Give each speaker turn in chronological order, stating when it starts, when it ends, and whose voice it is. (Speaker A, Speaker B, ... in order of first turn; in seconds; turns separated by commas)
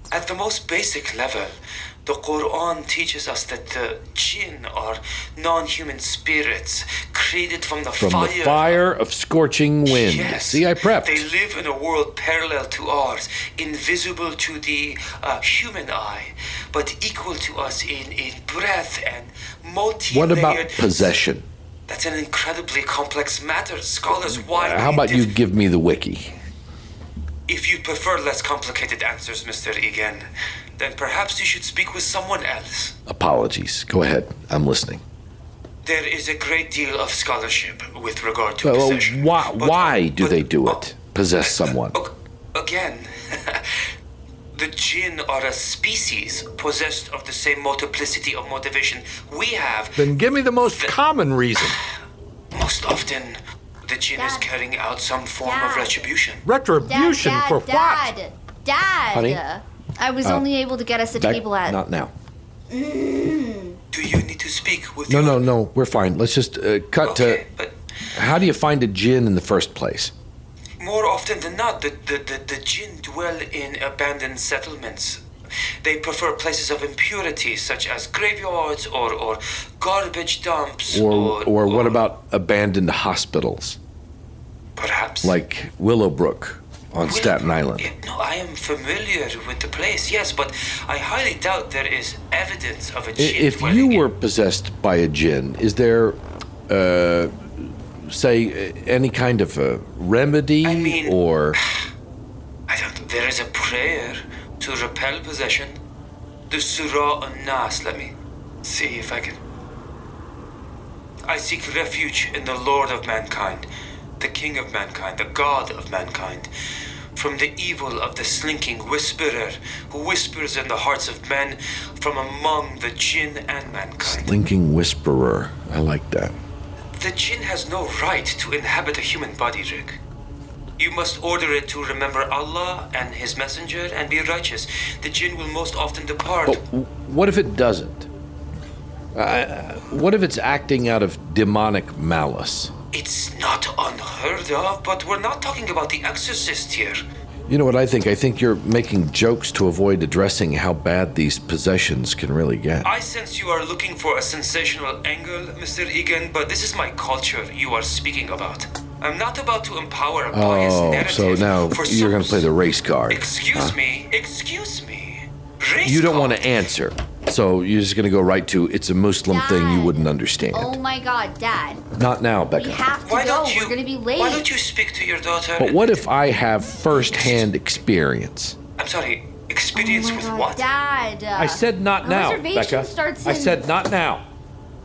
Speaker A: 0.1-8.8, Speaker B: 8.0-11.2, Speaker A: 9.8-21.1, Speaker B: 20.1-21.4, Speaker A: 21.9-25.3, Speaker B: 24.1-26.4, Speaker A: 27.5-30.3, Speaker A: 30.8-33.0, Speaker B: 33.1-35.0, Speaker A: 35.8-40.8, Speaker B: 38.6-42.0, Speaker A: 41.4-43.8, Speaker A: 44.5-50.1, Speaker B: 50.0-51.8, Speaker A: 50.6-51.0, Speaker A: 52.5-56.4, Speaker C: 54.1-54.5, Speaker C: 55.4-56.0, Speaker B: 56.4-58.1, Speaker C: 56.8-61.8, Speaker B: 59.1-59.4, Speaker B: 61.2-62.1, Speaker C: 62.7-63.8, Speaker A: 63.9-65.5, Speaker B: 65.1-67.4, Speaker A: 67.0-67.8, Speaker B: 68.1-70.1, Speaker A: 70.8-75.2, Speaker A: 75.8-82.0, Speaker B: 80.9-83.8, Speaker A: 84.8-85.4, Speaker B: 85.2-87.9, Speaker A: 87.0-94.0, Speaker B: 93.2-101.6, Speaker A: 100.6-101.8, Speaker A: 102.7-105.8, Speaker A: 106.5-109.4, Speaker A: 111.2-113.7, Speaker A: 114.2-116.5, Speaker A: 117.1-124.3, Speaker B: 124.0-126.4, Speaker A: 126.9-130.0, Speaker A: 130.8-136.6, Speaker B: 136.4-138.1, Speaker B: 139.1-142.7, Speaker A: 142.9-147.0, Speaker B: 147.5-152.9, Speaker A: 152.8-162.5, Speaker B: 160.3-163.7, Speaker A: 163.1-166.4, Speaker B: 165.8-170.8, Speaker C: 169.3-171.8, Speaker B: 171.9-172.8, Speaker C: 172.6-174.4, Speaker A: 173.0-176.0, Speaker B: 175.6-178.6, Speaker A: 176.9-177.5, Speaker A: 178.8-180.7, Speaker C: 179.7-183.6, Speaker B: 181.3-184.2